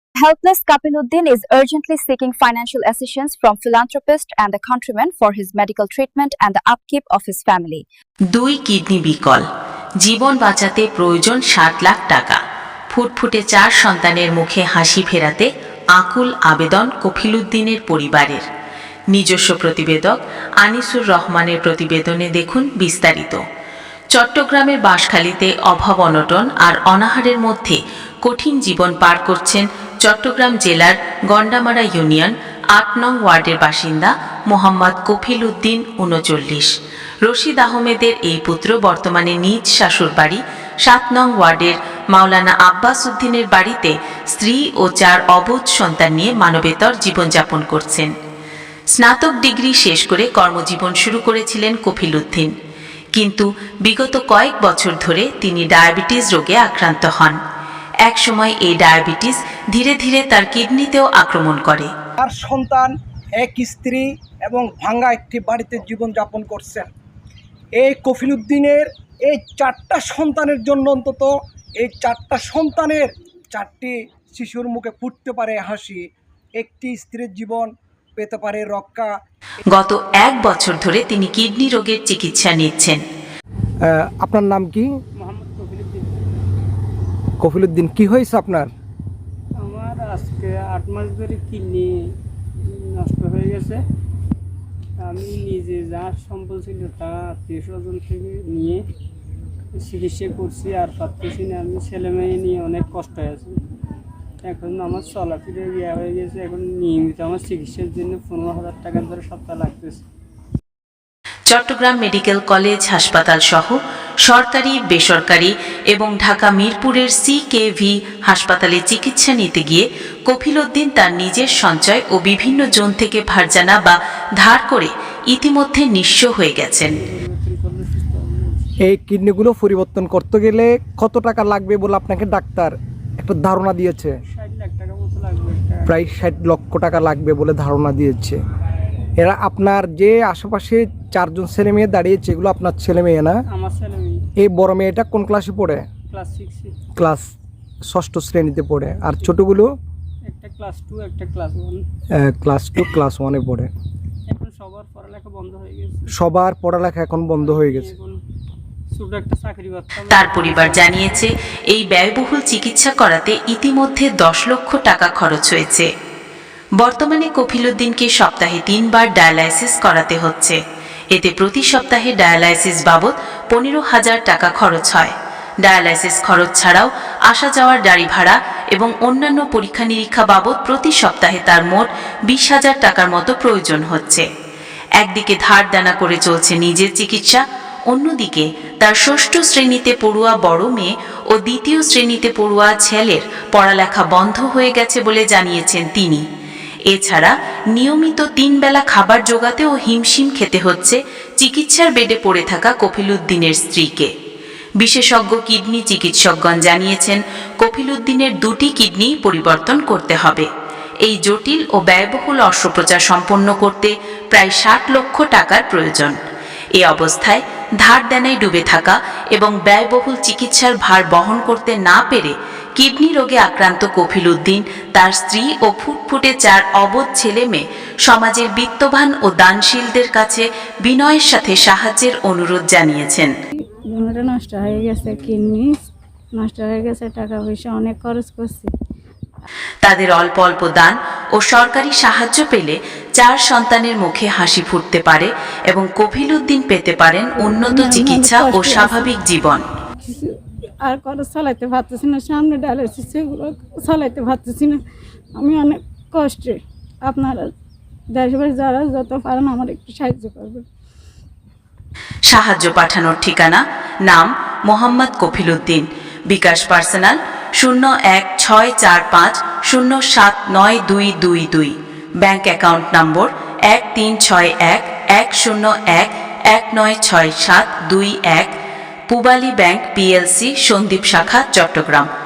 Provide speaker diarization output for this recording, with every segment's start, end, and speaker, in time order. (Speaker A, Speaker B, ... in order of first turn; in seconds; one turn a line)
Speaker A: 0.2-7.8
Speaker B: 8.3-9.4
Speaker B: 10.0-12.4
Speaker B: 12.9-18.4
Speaker B: 19.1-23.4
Speaker B: 24.1-36.7
Speaker B: 37.2-48.1
Speaker B: 48.9-52.5
Speaker B: 53.1-57.4
Speaker B: 58.0-61.9
Speaker C: 62.2-66.9
Speaker C: 67.8-76.0
Speaker C: 76.6-79.1
Speaker B: 79.7-83.0
Speaker C: 83.8-84.9
Speaker D: 85.2-86.2
Speaker C: 87.4-88.7
Speaker D: 89.6-92.0
Speaker D: 92.6-93.8
Speaker D: 95.0-98.8
Speaker D: 99.7-103.6
Speaker D: 104.4-110.0
Speaker B: 111.5-127.0
Speaker D: 126.9-128.7
Speaker C: 128.9-134.2
Speaker D: 134.3-135.9
Speaker C: 135.9-138.4
Speaker C: 139.2-143.4
Speaker D: 143.5-144.2
Speaker C: 144.4-145.8
Speaker D: 146.1-146.8
Speaker C: 147.0-147.2
Speaker C: 147.9-149.7
Speaker D: 150.2-151.8
Speaker C: 152.2-153.7
Speaker D: 154.3-156.1
Speaker C: 156.2-157.9
Speaker D: 157.4-158.2
Speaker D: 158.9-161.2
Speaker B: 160.1-165.9
Speaker B: 166.8-170.6
Speaker B: 171.1-184.2
Speaker B: 185.0-196.2
Speaker B: 196.9-204.1
Speaker B: 204.8-210.5
Speaker B: 211.0-216.2
Speaker B: 216.8-233.3
Speaker E: 233.6-235.8
Speaker E: 236.3-238.7
Speaker B: 239.8-249.6
Speaker E: 247.4-249.1
Speaker E: 250.0-254.8
Speaker E: 255.3-257.5
Speaker E: 258.1-260.7
Speaker B: 262.3-278.5
Speaker B: 279.1-282.1